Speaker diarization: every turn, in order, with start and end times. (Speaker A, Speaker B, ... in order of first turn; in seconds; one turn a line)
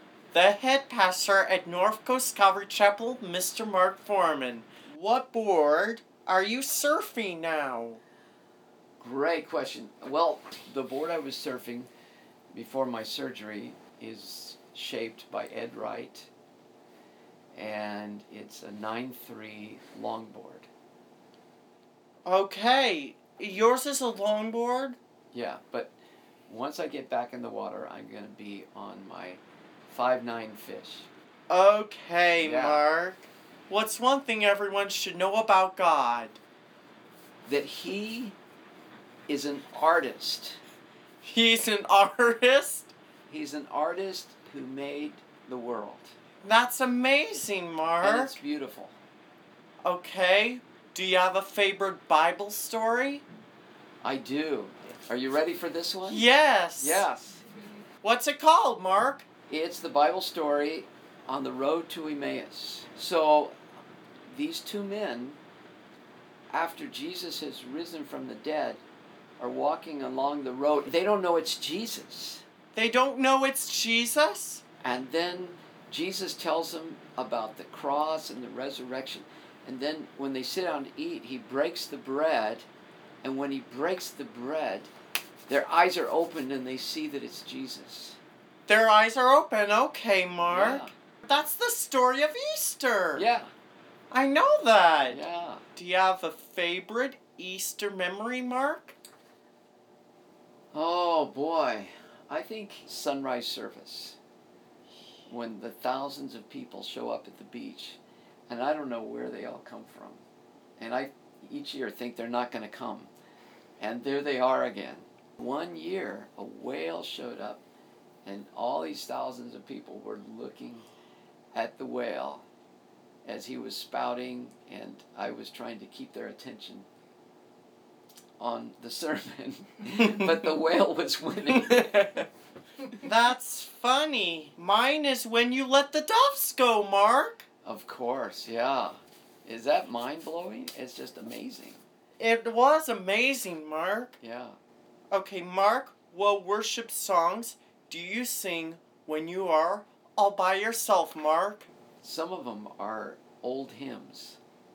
Speaker A: 0.3-8.0
Speaker B: 9.0-11.9
Speaker B: 12.5-16.3
Speaker B: 17.5-20.7
Speaker A: 22.2-25.0
Speaker B: 25.3-25.9
Speaker B: 26.5-31.1
Speaker A: 31.5-36.4
Speaker B: 32.4-32.8
Speaker B: 37.4-38.4
Speaker B: 39.3-40.6
Speaker A: 41.2-42.9
Speaker B: 43.3-46.1
Speaker A: 46.4-48.3
Speaker B: 48.0-49.0
Speaker A: 49.8-53.2
Speaker B: 54.0-56.2
Speaker A: 56.1-57.0
Speaker B: 56.8-57.4
Speaker A: 58.0-59.3
Speaker B: 59.5-63.5
Speaker B: 64.3-65.4
Speaker B: 66.5-68.8
Speaker B: 69.4-72.4
Speaker A: 72.7-74.6
Speaker B: 74.8-82.7
Speaker B: 83.2-84.9
Speaker B: 85.5-88.2
Speaker A: 88.7-93.3
Speaker B: 90.5-90.9
Speaker B: 93.1-93.5
Speaker A: 94.1-95.2
Speaker B: 95.1-95.6
Speaker A: 95.8-99.0
Speaker B: 100.7-104.2
Speaker B: 105.3-110.2
Speaker B: 110.8-113.1
Speaker B: 113.8-117.6
Speaker B: 118.2-120.9
Speaker B: 121.5-122.5
Speaker B: 123.2-126.9
Speaker B: 128.4-132.3
Speaker A: 133.0-137.4
Speaker B: 137.6-141.8
Speaker A: 142.2-144.1
Speaker B: 144.2-144.6
Speaker A: 145.1-151.7
Speaker B: 152.0-154.4